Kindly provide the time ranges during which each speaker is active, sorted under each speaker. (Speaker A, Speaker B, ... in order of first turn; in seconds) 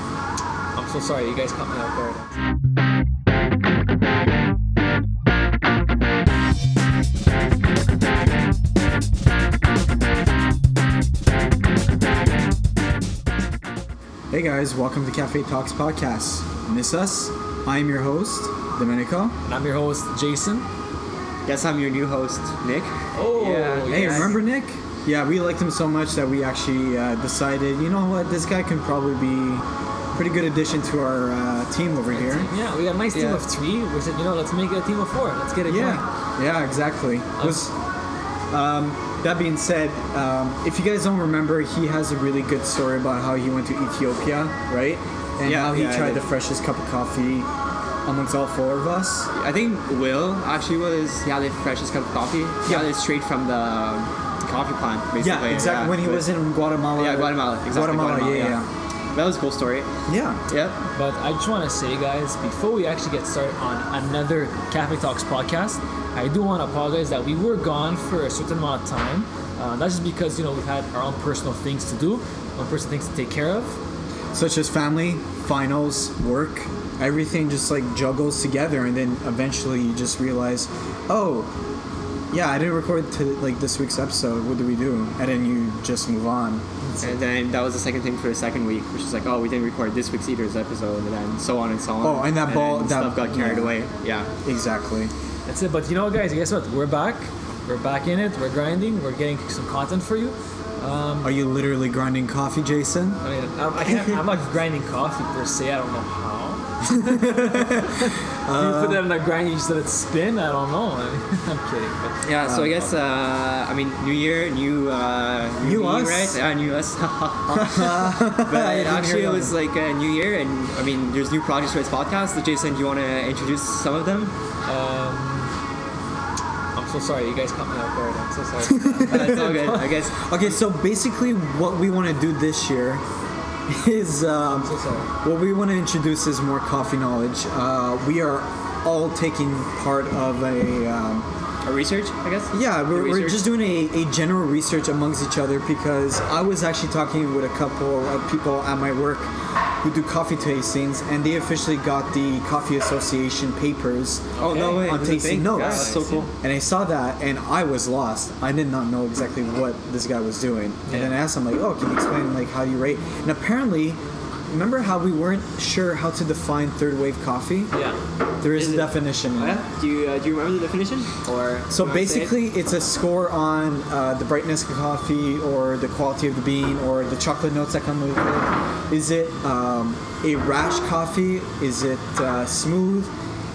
Speaker A: 0.8-2.4, 19.5-20.7, 23.1-24.4, 32.1-36.0, 37.4-37.6, 61.0-73.8, 86.8-87.1, 95.5-101.3, 103.2-112.2, 124.7-125.5, 126.8-129.9, 134.5-135.1, 154.4-154.9, 155.5-156.3, 160.9-161.2, 167.7-168.0
Speaker B: 14.3-19.4, 23.9-32.5, 35.7-37.7, 38.5-47.5, 48.0-49.3, 55.2-58.7, 60.1-60.4, 74.3-81.5, 82.3-86.7, 92.0-93.9, 94.4-95.1, 101.2-103.2, 106.9-109.1, 112.4-112.9, 115.6-116.4, 117.5-119.5, 128.6-133.0, 133.7-141.3, 142.5-149.3, 149.8-167.7, 168.4-169.7, 171.7-183.1
Speaker C: 21.5-24.3, 33.1-33.4, 45.4-46.3, 49.3-56.3, 56.9-58.6, 59.1-59.9, 60.5-60.8, 87.0-94.3, 103.8-104.2, 112.2-124.3, 129.1-130.3, 141.6-143.5, 154.4-156.3, 168.5-172.4